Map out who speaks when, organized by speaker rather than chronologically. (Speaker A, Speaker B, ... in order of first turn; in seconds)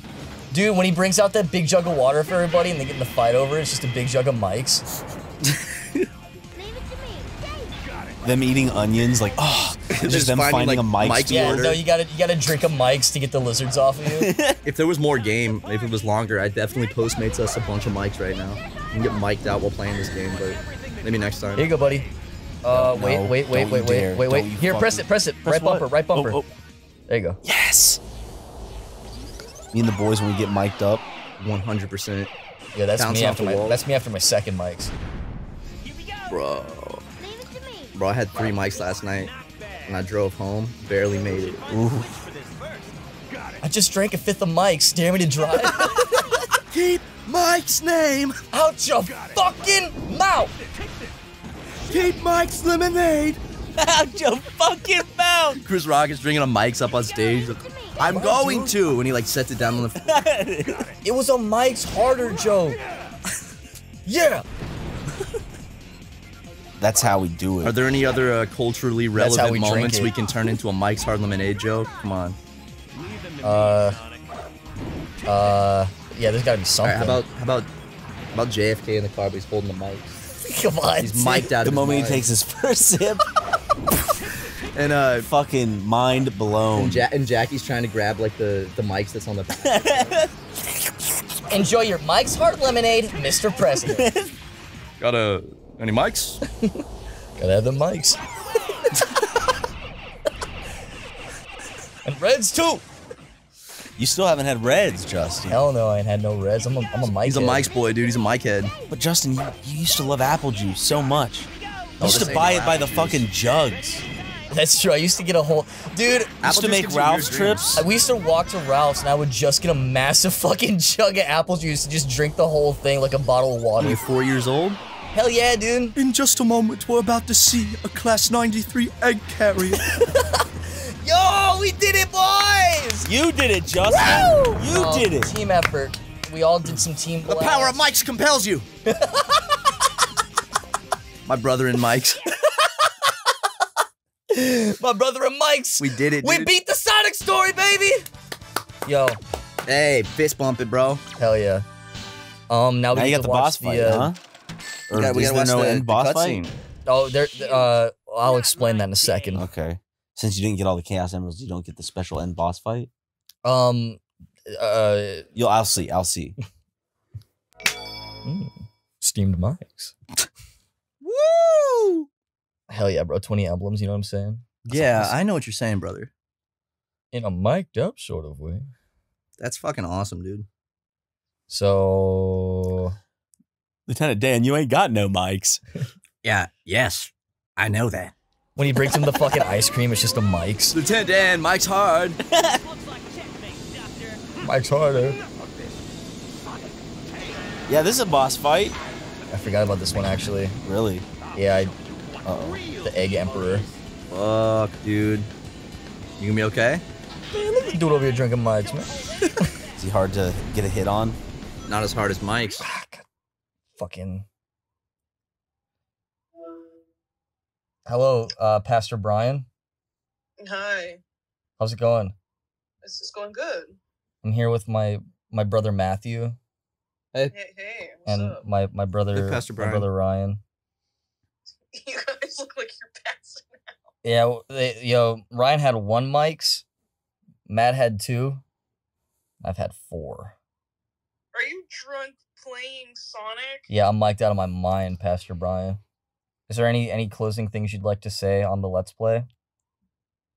Speaker A: 0.5-4.8, 11.3-14.3, 21.6-22.1, 22.6-26.4, 27.1-27.4, 32.7-34.9, 43.6-46.4, 48.5-50.5, 58.1-58.7, 61.0-62.8, 64.0-64.4, 69.1-70.1, 73.4-74.0, 75.2-77.2, 80.4-81.5, 91.5-94.1, 97.4-98.2, 102.0-102.8, 105.5-107.7, 112.0-112.5, 114.5-116.4, 117.7-124.0, 125.1-126.0, 129.8-133.1, 133.9-137.8, 138.8-139.6, 142.6-143.1, 144.3-148.0, 148.8-149.2, 151.2-151.6, 152.5-154.1, 156.8-159.4, 163.4-165.3, 168.2-169.9, 172.7-175.1, 177.1-178.7, 181.5-182.9, 188.6-190.8, 194.4-195.2, 199.3-200.6, 201.3-201.7, 202.7-203.7, 207.3-209.5, 212.6-213.0, 213.8-214.2, 217.8-219.5, 221.6-222.1, 224.2-226.4, 228.1-230.4, 234.0-236.6, 237.5-238.4, 239.4-240.3, 243.7-245.8, 246.5-249.3
Speaker B: 8.2-11.7, 14.1-14.6, 22.7-26.5, 27.4-28.0, 29.7-31.0, 41.7-42.3, 53.8-55.6, 60.0-60.9, 66.8-67.8, 81.6-83.2, 85.2-87.0, 89.6-90.3, 93.7-94.3, 104.0-105.6, 108.9-114.0, 116.4-117.8, 133.0-135.3, 152.9-154.2, 154.9-156.4, 159.3-162.9, 165.3-166.3, 183.9-185.6, 192.3-192.6, 197.7-198.8, 200.6-201.1, 202.2-202.6, 209.8-211.2
Speaker C: 9.9-11.8, 14.6-21.7, 31.4-32.3, 33.0-33.8, 36.3-37.0, 37.9-39.3, 39.9-41.7, 46.7-48.4, 51.9-53.4, 55.6-60.2, 67.6-72.4, 76.8-77.7, 78.3-80.2, 81.0-82.3, 84.7-85.3, 86.7-90.2, 95.0-96.4, 107.1-108.7, 112.0-113.2, 116.4-117.8, 123.8-124.8, 126.0-129.9, 137.2-138.7, 141.2-142.2, 145.8-146.5, 149.7-151.0, 154.9-156.5, 171.0-172.0, 174.7-176.1, 179.4-180.5, 186.2-188.1, 190.7-192.2, 204.1-205.3, 206.2-206.8, 211.7-212.7, 229.1-229.9
Speaker D: 220.4-221.0, 222.8-223.8, 227.3-228.4, 231.7-233.8, 241.3-243.6